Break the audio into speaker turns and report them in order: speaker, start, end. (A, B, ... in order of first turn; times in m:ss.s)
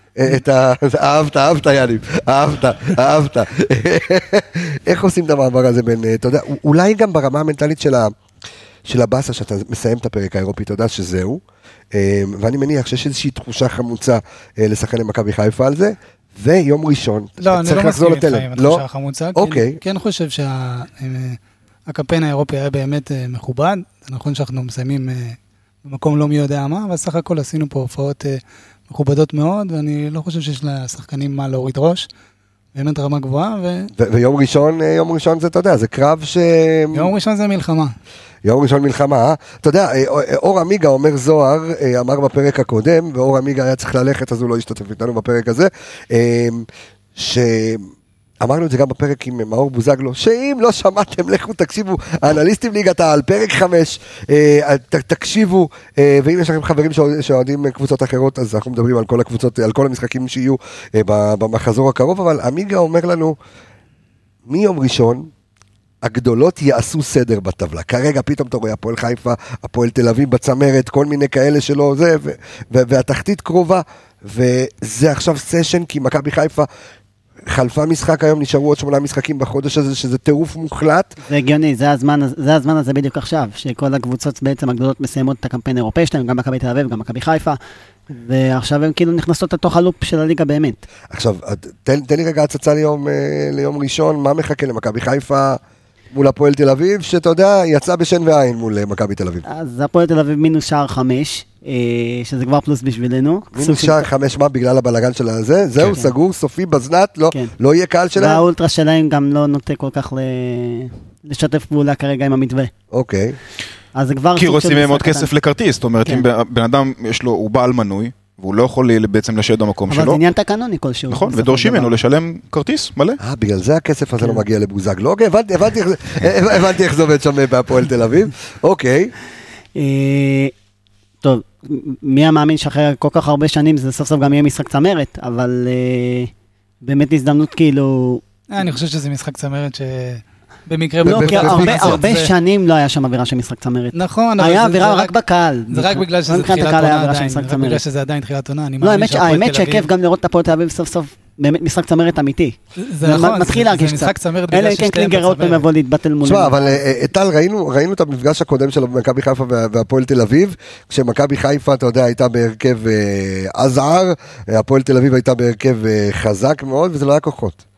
0:00.2-0:08.1 A
0:08.9-0:11.4 A
0:11.9-0:18.8 A
0:17.4-0:32.1 B
0:19.4-0:19.8 A
0:32.7-0:33.9 B
0:34.0-0:37.1 A
0:36.9-0:37.9 B
0:38.4-0:47.9 A
0:48.4-1:03.4 A
1:04.5-1:05.3 A
1:06.0-1:16.7 A
1:17.5-1:21.2 A
1:21.3-1:27.6 C
1:28.1-1:30.8 C
1:31.1-1:35.6 A
1:36.1-1:39.4 A
1:39.5-1:44.1 C
1:43.5-1:48.4 A
1:45.8-1:46.1 C
1:48.2-1:52.7 C
1:52.9-1:53.4 A
1:54.0-1:55.3 C
1:54.4-2:00.2 D
1:59.9-2:02.0 C
2:01.1-2:03.2 D
2:03.2-2:09.1 A
2:09.8-2:10.5 C
2:11.2-2:18.2 C
2:18.5-2:22.4 B
2:21.0-2:27.8 C
2:21.0-2:22.1 A
2:23.9-2:25.2 B
2:25.7-2:29.9 B
2:28.8-2:36.8 C
2:32.8-2:35.7 B
2:36.2-2:47.6 A